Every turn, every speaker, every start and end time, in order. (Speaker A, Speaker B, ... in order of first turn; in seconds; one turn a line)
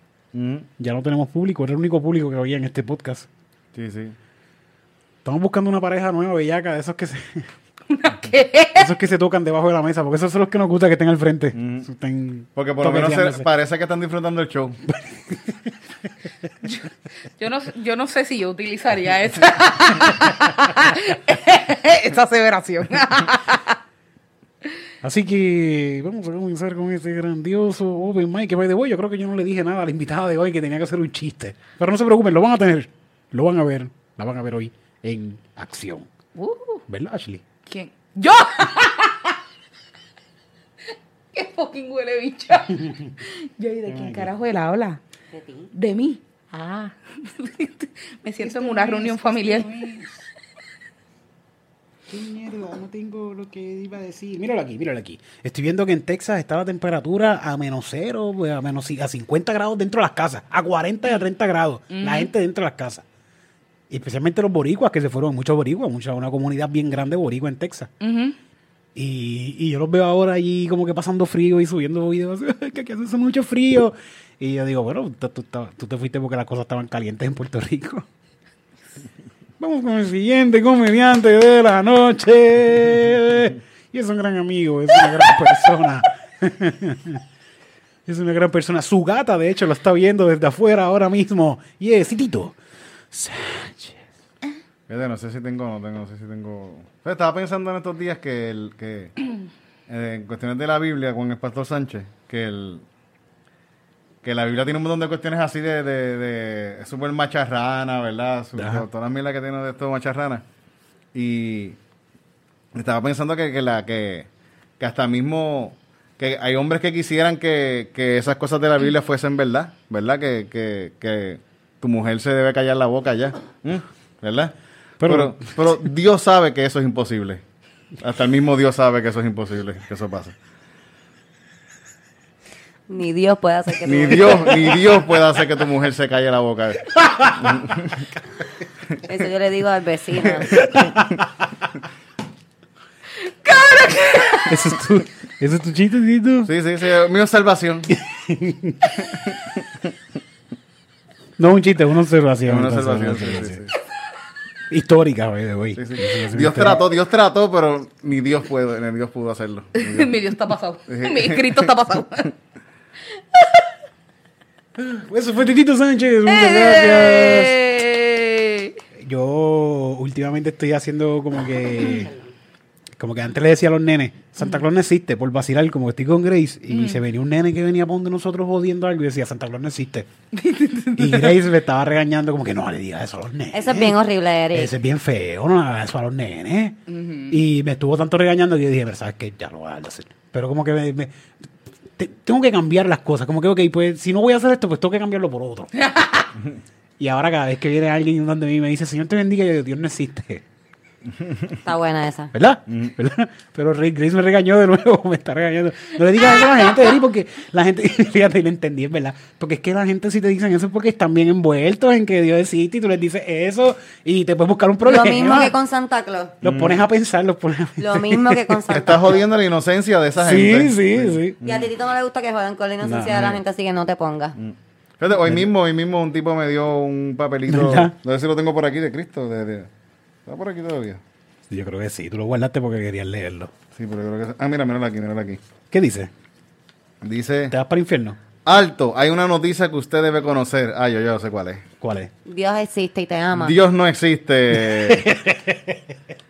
Speaker A: 0.3-0.7
Speaker B: 0.8-3.3
Speaker A: 3.8-4.2
Speaker B: 5.2-7.5
Speaker C: 7.9-8.9
Speaker B: 8.8-13.5
Speaker A: 11.6-11.9
Speaker A: 12.6-14.8
Speaker C: 16.6-23.8
Speaker B: 25.0-36.1
Speaker C: 36.4-36.8
Speaker B: 36.9-37.4
Speaker C: 37.7-39.4
Speaker C: 41.3-45.0
Speaker B: 43.9-44.3
Speaker D: 45.3-45.7
Speaker C: 45.7-49.7
Speaker B: 48.4-50.2
Speaker B: 52.1-63.0
Speaker C: 61.9-62.3
Speaker B: 63.9-67.9
Speaker C: 68.0-68.4
Speaker B: 69.0-78.1
Speaker B: 79.6-87.2
Speaker B: 88.1-92.6
Speaker B: 93.1-94.0
Speaker A: 94.9-99.1
Speaker A: 99.9-102.8
Speaker A: 104.2-110.4
Speaker B: 108.6-108.8
Speaker A: 111.1-111.8
Speaker A: 112.7-114.3
Speaker A: 114.8-127.4
Speaker B: 125.0-125.8
Speaker A: 128.0-130.3
Speaker D: 132.9-134.8
Speaker A: 133.8-138.1
Speaker D: 139.1-140.6
Speaker B: 140.5-141.2
Speaker A: 140.6-141.0
Speaker C: 143.3-144.6
Speaker B: 144.5-146.5
Speaker A: 146.5-147.9
Speaker B: 147.9-149.0
Speaker B: 151.4-153.6
Speaker A: 152.5-153.7
Speaker B: 154.7-156.8
Speaker A: 155.8-160.1
Speaker C: 159.8-162.3
Speaker A: 160.9-161.7
Speaker C: 163.3-163.6
Speaker B: 164.8-167.6
Speaker C: 166.3-168.8
Speaker B: 169.0-172.1
Speaker B: 173.0-180.1
Speaker C: 176.7-177.0
Speaker C: 180.3-181.4
Speaker B: 181.0-183.9
Speaker D: 183.5-184.7
Speaker B: 184.5-186.8
Speaker C: 186.9-187.4
Speaker B: 187.3-191.1
Speaker B: 192.0-195.7
Speaker C: 195.8-196.3
Speaker B: 197.0-200.4
Speaker D: 201.7-202.3
Speaker B: 202.3-215.6
Speaker D: 214.8-216.4
Speaker B: 216.4-218.6
Speaker A: 216.4-216.8
Speaker D: 217.8-219.2
Speaker A: 218.7-221.7
Speaker B: 220.2-221.4
Speaker D: 221.4-224.4
Speaker B: 222.8-223.4
Speaker A: 224.4-229.7
Speaker B: 227.5-228.0
Speaker A: 230.3-231.0
Speaker B: 231.5-233.5
Speaker A: 233.8-235.4
Speaker B: 235.7-236.1
Speaker A: 237.0-237.6
Speaker B: 237.5-238.2
Speaker A: 238.4-241.7
Speaker B: 241.8-242.1
Speaker D: 242.3-243.6
Speaker A: 243.4-245.1
Speaker B: 244.6-245.8